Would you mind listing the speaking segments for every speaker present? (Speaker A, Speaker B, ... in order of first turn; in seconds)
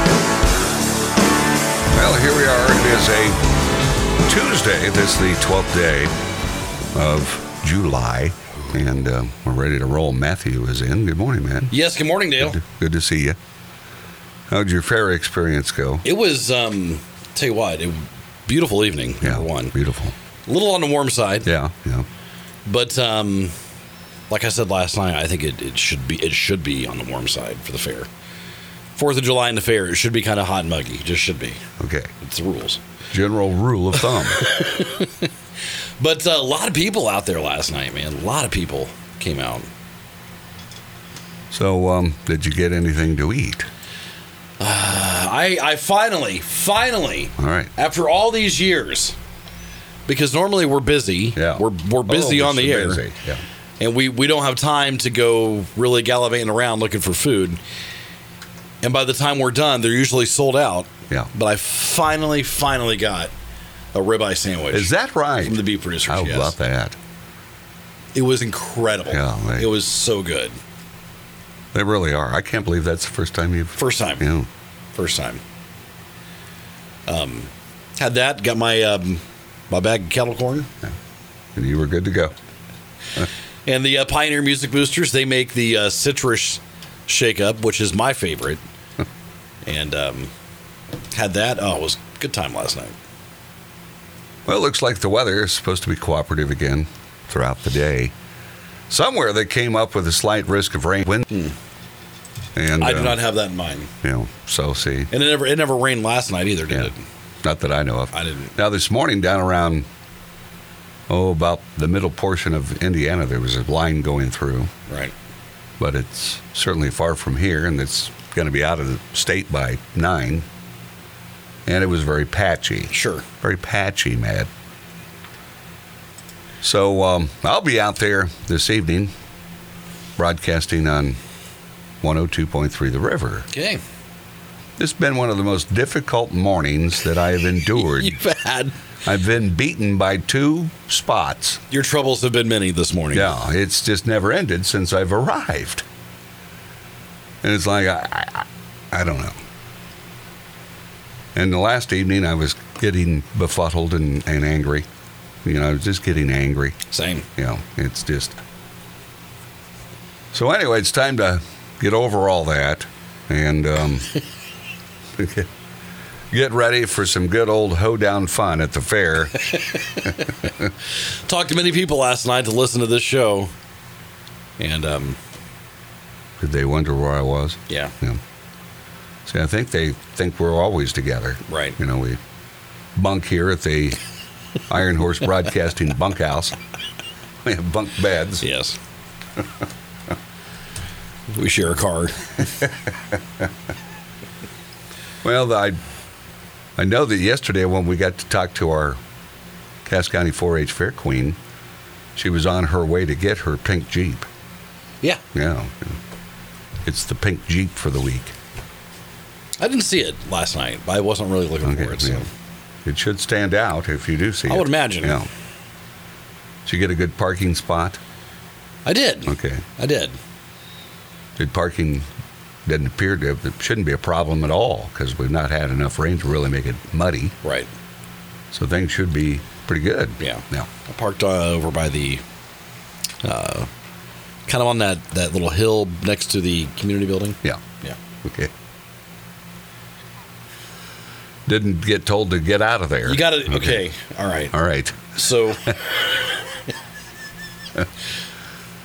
Speaker A: 1.9-3.4, 4.2-6.1, 6.9-11.7, 12.4-13.4, 14.5-16.0, 19.2-20.1, 21.4-22.1, 31.8-32.1, 33.1-34.4, 41.5-43.7, 47.4-47.7, 51.4-53.4, 64.7-67.0, 69.1-69.7, 71.7-74.5, 81.5-82.3, 94.5-98.1, 98.9-101.3, 102.5-103.2, 104.0-105.1, 107.4-109.9, 111.1-114.7, 115.8-120.5, 121.7-124.5, 126.6-129.1, 130.2-131.2, 132.0-133.5, 134.8-138.2, 139.0-141.6, 143.1-145.8, 147.4-149.4, 151.3-154.9, 155.4-156.8, 157.3-158.4, 160.3-164.1, 165.2-165.5, 166.3-169.3, 176.4-178.2, 179.2-182.2, 182.9-184.0, 184.7-186.6, 187.4-188.4, 195.2-195.8, 196.8-199.0, 199.8-201.4, 202.2-204.3, 205.3-206.0, 206.8-208.3, 211.6-212.2, 212.8-215.3, 216.6-218.0, 219.3-219.7, 221.4-222.1, 222.7-227.3, 228.5-230.7, 238.2-238.5, 241.4-243.8, 244.5-245.2
Speaker B: 11.7-12.6, 16.0-19.7, 20.5-21.5, 22.6-23.5, 24.3-28.1, 28.9-31.6, 32.2-32.8, 34.3-35.3, 36.0-39.7, 44.6-49.2, 50.1-53.0, 53.8-57.6, 58.8-63.3, 63.9-64.9, 65.4-66.5, 68.1-70.6, 73.8-74.3, 74.9-75.4, 77.1-80.7, 83.7-88.6, 89.6-90.3, 91.1-93.0, 102.8-103.9, 105.1-107.0, 108.1-108.5, 114.9-115.1, 122.9-123.2, 133.5-133.8, 137.8-138.8, 141.7-143.3, 156.9-157.2, 169.5-170.3, 171.2-173.5, 174.6-175.2, 177.7-177.9, 181.5-181.8, 188.4-188.8, 191.3-192.3, 209.6-212.3, 214.5-215.2, 218.8-220.2, 227.4-227.7, 230.2-232.2, 233.2-233.7, 234.5-238.0, 243.0-244.5, 245.1-245.8